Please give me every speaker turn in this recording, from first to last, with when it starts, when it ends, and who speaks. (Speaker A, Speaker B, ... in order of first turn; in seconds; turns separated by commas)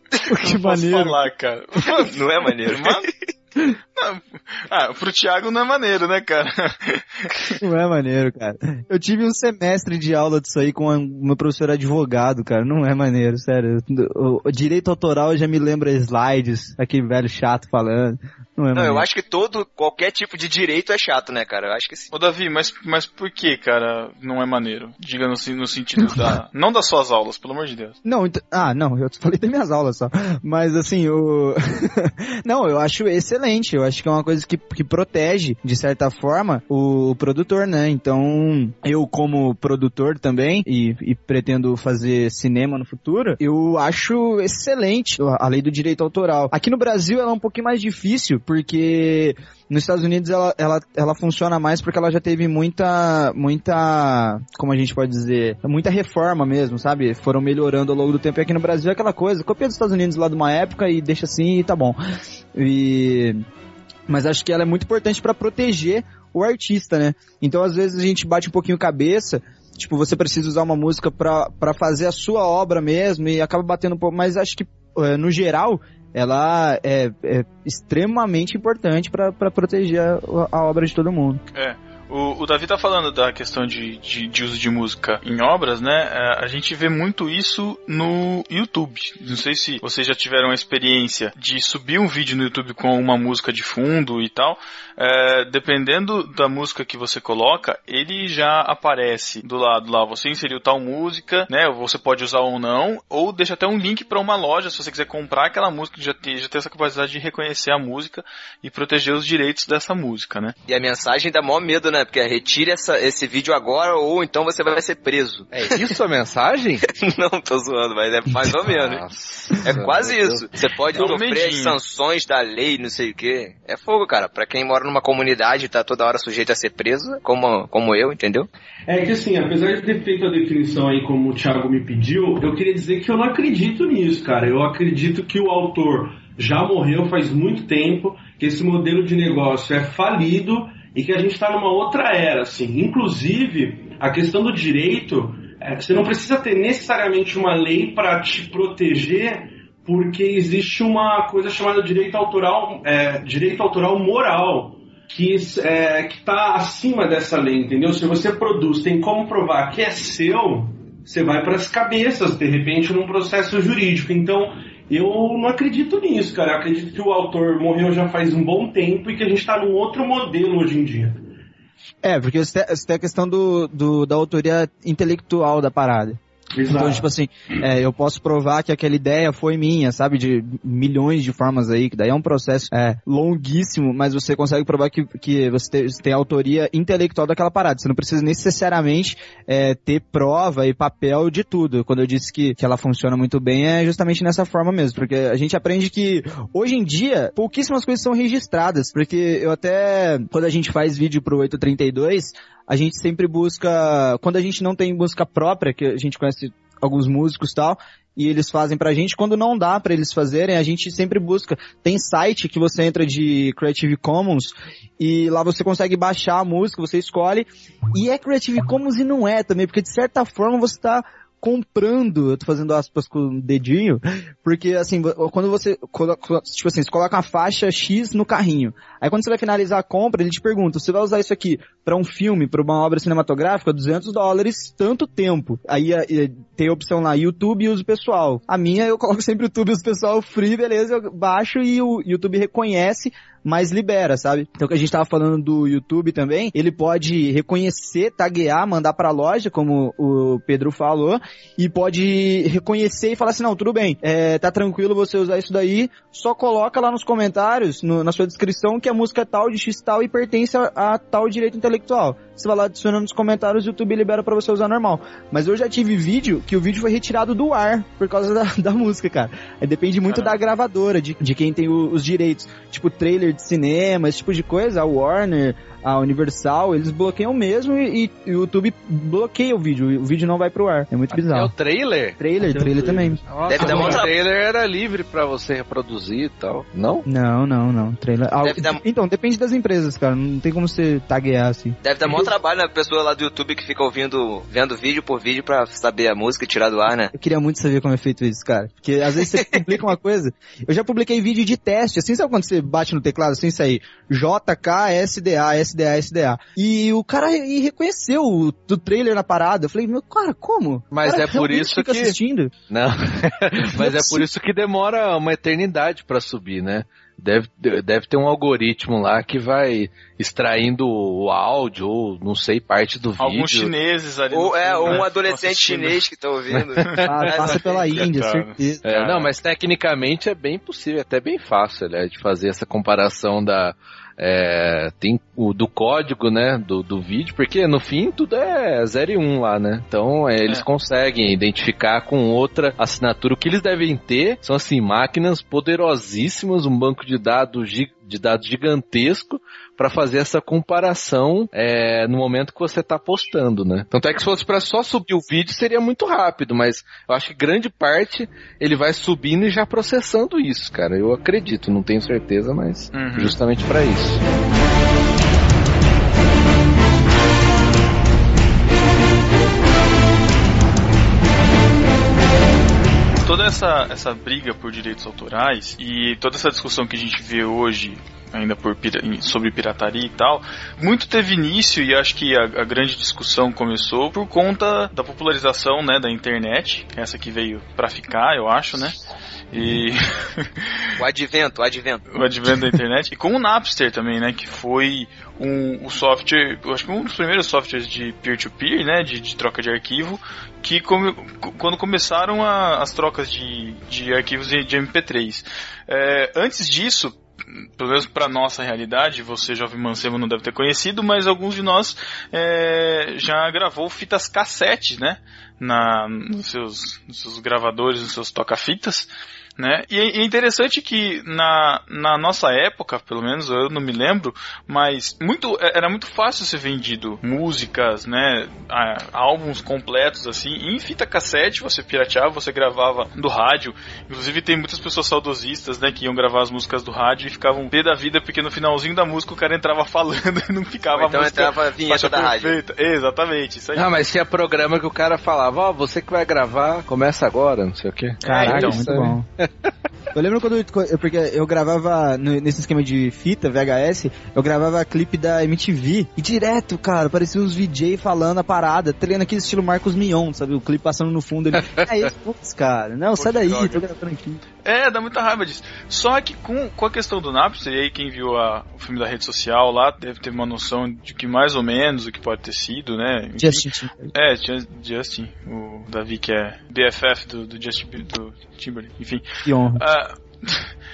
Speaker A: 0.3-3.1, Speaker B: 0.3-1.2, Speaker C: 1.9-3.0, Speaker A: 4.0-7.6, Speaker B: 7.6-19.1, Speaker C: 18.8-22.1, Speaker A: 22.1-28.0, Speaker B: 26.0-26.4, Speaker B: 28.0-62.0, Speaker B: 62.5-63.4, Speaker B: 64.1-81.4, Speaker A: 81.5-110.5, Speaker C: 110.7-116.0, Speaker D: 115.5-116.8, Speaker C: 116.9-119.0, Speaker D: 118.5-120.5, Speaker C: 119.6-128.5, Speaker A: 120.9-121.8, Speaker E: 128.9-171.2, Speaker B: 172.0-281.5, Speaker E: 176.5-177.1, Speaker A: 270.1-270.4, Speaker D: 281.1-282.2, Speaker B: 282.2-283.2, Speaker E: 282.4-284.1, Speaker D: 283.3-287.1, Speaker C: 283.5-284.1, Speaker B: 287.1-291.8, Speaker C: 288.4-288.8, Speaker C: 291.8-297.1, Speaker B: 297.1-312.5, Speaker C: 299.3-299.6, Speaker D: 310.9-312.2, Speaker D: 312.7-323.7, Speaker B: 313.7-314.3, Speaker A: 323.2-326.0, Speaker C: 324.3-326.9, Speaker D: 326.5-328.0, Speaker A: 326.9-329.3, Speaker B: 327.1-328.8, Speaker D: 328.8-364.2, Speaker A: 362.9-363.4, Speaker A: 373.2-389.0, Speaker A: 389.5-390.6, Speaker C: 391.0-392.0, Speaker A: 392.1-407.2, Speaker A: 407.8-443.9, Speaker C: 440.9-442.6, Speaker D: 443.8-449.7, Speaker A: 448.2-448.9, Speaker B: 448.3-449.2, Speaker B: 450.1-464.4, Speaker A: 463.2-463.8, Speaker A: 464.6-479.2, Speaker B: 473.4-474.1, Speaker B: 479.5-479.8, Speaker A: 479.8-480.7